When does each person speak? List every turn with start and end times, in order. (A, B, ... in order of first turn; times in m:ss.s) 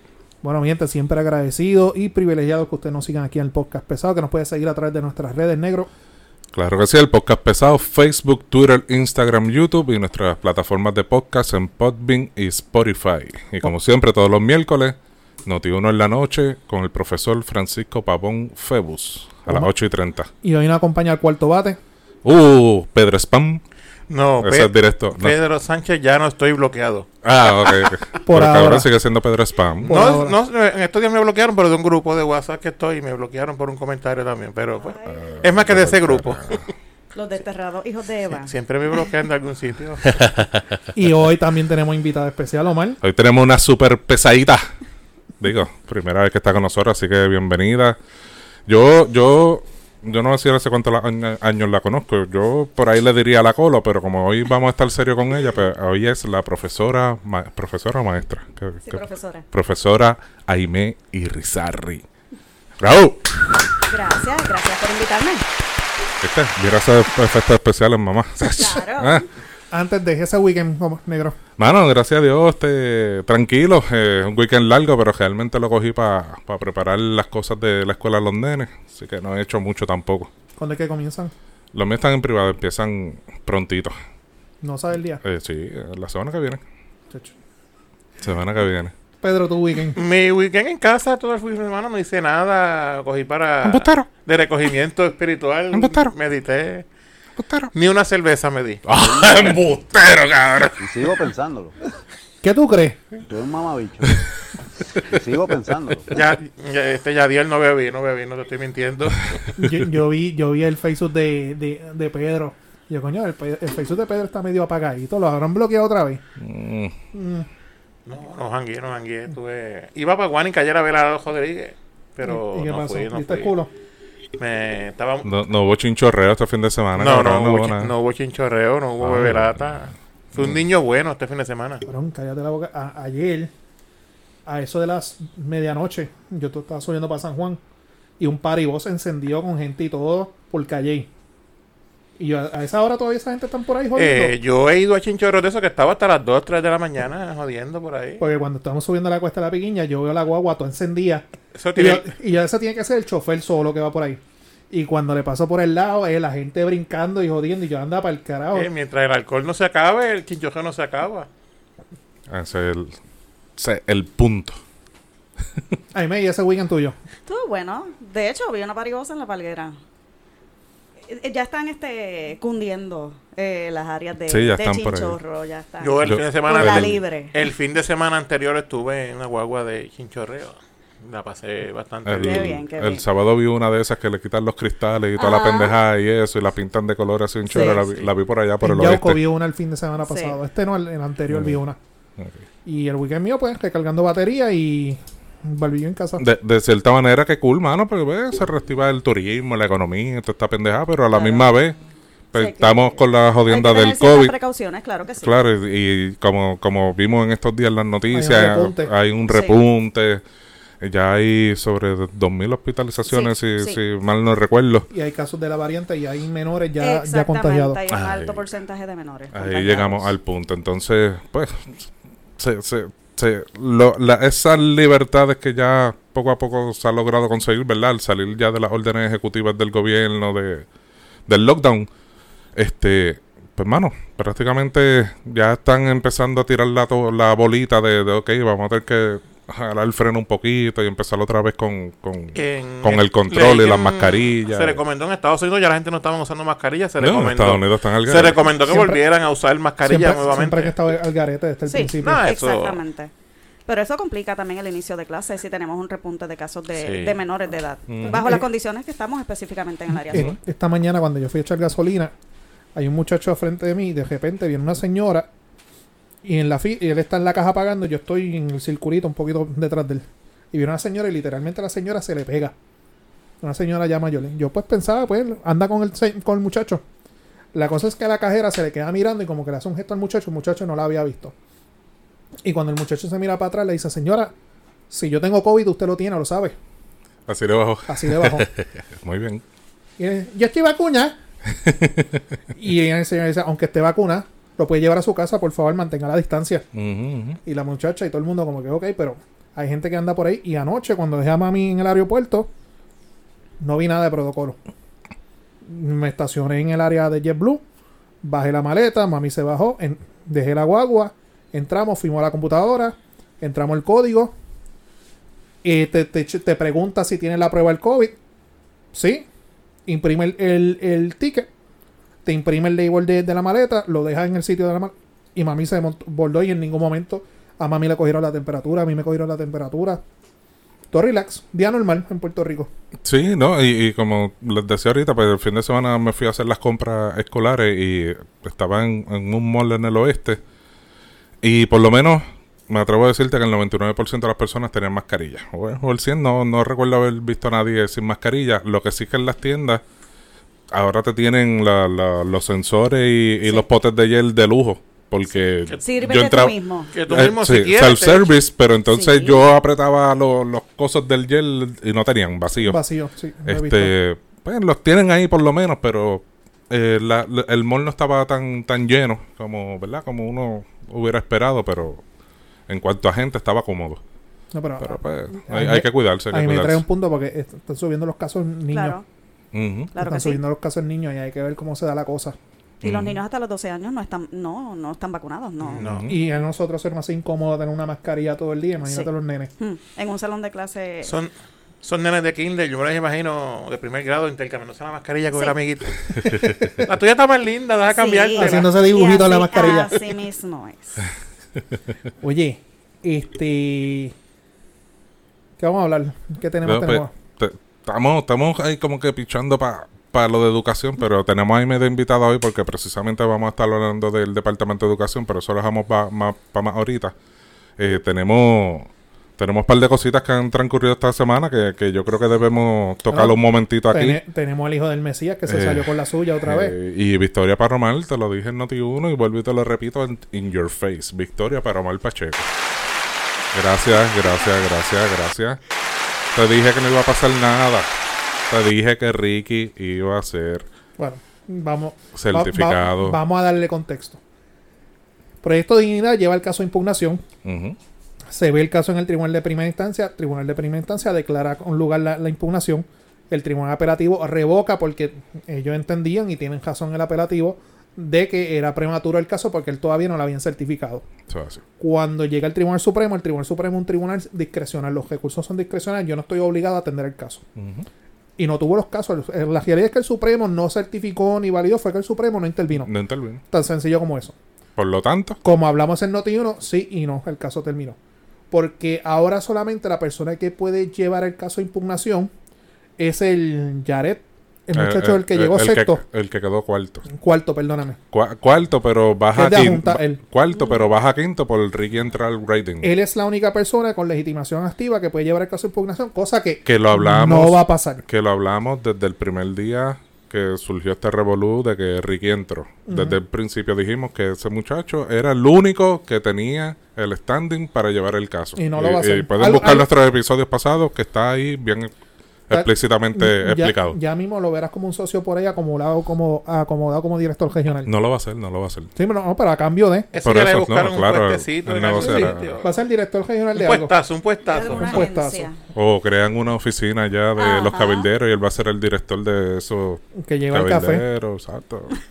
0:00.4-0:05.9 A
0:06.5-0:20.3 B
0:20.4-0:21.8 A
0:22.2-0:23.6 B
0:24.1-0:27.1 C
0:24.4-0:25.4 B
0:27.2-0:30.0 B
0:28.2-0:28.9 A
0:29.8-0:30.4 A
0:29.8-0:36.7 C
0:34.8-0:35.4 D
0:35.0-0:36.7 B
0:37.1-0:38.5 D
0:38.3-0:40.2 C
0:40.9-0:43.0 A
0:43.0-0:44.6 B
0:45.4-0:48.0 B
0:48.7-1:02.0 B
0:58.8-0:59.4 D
1:02.8-1:03.6 B
1:03.9-1:05.4 D
1:06.2-1:09.3 B
1:08.5-1:09.3 D
1:09.7-1:11.4 A
1:11.6-1:20.3 B
1:20.6-1:21.3 A
1:21.7-1:24.0 B
1:24.6-1:25.2 A
1:25.2-1:26.6 B
1:28.2-1:28.9 B
1:29.2-1:30.0 A
1:30.0-1:36.9 C
1:33.6-1:34.1 B
1:35.7-1:36.1 B
1:37.4-1:37.7 B
1:37.7-1:38.9 C
1:38.9-1:40.8 B
1:38.9-1:39.6 E
1:40.8-1:41.8 E
1:42.4-1:43.0 A
1:43.3-1:44.2 E
1:45.0-1:46.1 E
1:46.1-1:49.5 C
1:49.6-1:56.2 A
1:56.4-1:56.9 B
1:57.1-1:57.5 A
1:58.1-2:03.5 C
2:02.2-2:03.7 A
2:04.4-2:05.3 C
2:05.2-2:07.9 B
2:07.0-2:11.8 C
2:09.0-2:10.6 B
2:11.9-2:13.5 A
2:14.5-2:17.6 A
2:18.2-2:21.1 A
2:22.2-2:24.4 A
2:24.0-2:28.2 C
2:28.2-2:38.7 A
2:31.6-2:32.1 C
2:38.5-2:41.3 C
2:42.3-2:43.0 B
2:43.6-2:44.6 B
2:45.9-2:47.0 A
2:47.3-2:49.8 D
2:51.1-2:57.4 D
2:54.3-2:55.2 B
2:55.8-3:02.6 C
2:56.0-2:57.0 B
3:02.0-3:09.2 B
3:02.2-3:03.0 D
3:05.2-3:05.8 D
3:07.4-3:07.9 D
3:08.6-3:11.8 A
3:10.0-3:10.4 D
3:11.3-3:11.6 B
3:12.6-3:16.2 A
3:16.2-3:21.8 B
3:21.1-3:21.5 D
3:22.3-3:25.4 D
3:22.3-3:24.4 B
3:25.2-3:30.2 B
3:28.1-3:28.9 A
3:29.3-3:29.6 D
3:30.8-3:34.9 B
3:33.1-3:33.8 D
3:34.9-3:37.8 A
3:36.8-3:40.2 D
3:37.9-3:38.5 B
3:39.3-3:41.9 B
3:42.4-3:50.7 B
3:51.3-3:51.9 B
3:52.6-4:04.8 B
4:02.4-4:10.8 C
4:07.0-4:08.4 B
4:08.6-4:09.0 A
4:09.8-4:12.2 A
4:11.7-4:13.1 D
4:12.0-4:12.8 C
4:13.7-4:20.3 D
4:16.7-4:17.2 C
4:17.9-4:18.3 B
4:18.1-4:18.4 A
4:20.1-4:22.1 A
4:22.8-4:25.3 A
4:26.2-4:32.6 A
4:33.4-4:36.8 A
4:37.5-4:41.4 A
4:42.4-4:44.3 A
4:44.9-4:46.6 A
4:47.3-4:49.4 B
4:47.9-4:48.5 A
4:50.0-4:51.2 A
4:51.5-4:52.2 B
4:52.6-4:56.7 A
4:56.7-4:57.4 B
4:57.4-5:02.5 A
5:03.6-5:04.6 A
5:05.6-5:07.6 A
5:08.2-5:14.3 A
5:15.6-5:18.2 A
5:18.9-5:19.3 A
5:19.9-5:21.5 A
5:22.2-5:30.0 A
5:30.9-5:32.7 A
5:33.0-5:40.4 B
5:41.4-5:49.8 B
5:50.7-5:56.6 B
5:55.8-5:57.0 D
5:56.9-5:58.4 C
5:57.1-6:02.8 B
5:58.9-5:59.4 D
6:02.6-6:04.0 A
6:03.5-6:12.0 B
6:12.7-6:14.0 B
6:14.5-6:19.0 A
6:14.8-6:16.8 B
6:18.7-6:19.1 D
6:19.5-6:19.9 B
6:19.9-6:20.4 D
6:20.0-6:22.4 A
6:22.8-6:23.2 B
6:22.8-6:25.9 D
6:25.6-6:26.1 C
6:25.7-6:26.2 B
6:26.1-6:29.5 A
6:28.8-6:31.2 D
6:31.0-6:38.8 C
6:36.3-6:36.7 A
6:37.9-6:41.0 D
6:38.4-6:39.9 A
6:39.7-6:40.1 C
6:42.2-6:44.1 A
6:45.6-6:47.1 A
6:46.6-6:57.2 B
6:57.8-7:04.2 B
7:03.1-7:06.8 A
7:05.5-7:12.5 B
7:13.5-7:15.6 B
7:16.3-7:17.9 B
7:18.5-7:20.7 B
7:21.0-7:24.2 A
7:22.1-7:23.2 B
7:25.4-7:27.2 A
7:27.4-7:27.8 B
7:28.3-7:41.0 A
7:41.3-7:41.6 B
7:41.8-7:47.4 A
7:47.6-7:47.9 B
7:48.4-7:52.9 A
7:52.7-7:53.4 B
7:53.5-7:54.4 A
7:54.8-7:55.4 B
7:55.4-7:58.0 A
7:58.5-8:02.3 A
8:03.0-8:06.0 A
8:04.7-8:07.1 B
8:07.1-8:08.0 A
8:08.1-8:12.9 B
8:09.3-8:10.2 A
8:12.8-8:18.0 A
8:16.7-8:31.9 B
8:22.9-8:23.2 A
8:28.6-8:29.9 A
8:32.5-8:34.0 B
8:32.5-8:37.9 A
8:37.8-8:38.9 B
8:39.0-8:40.1 A
8:40.1-8:42.7 C
8:40.2-8:42.6 B
8:42.0-8:44.0 A
8:43.6-8:45.1 C
8:44.5-8:45.6 D
8:44.7-8:45.5 A
8:45.7-8:52.0 B
8:47.4-8:48.1 D
8:50.2-8:51.0 A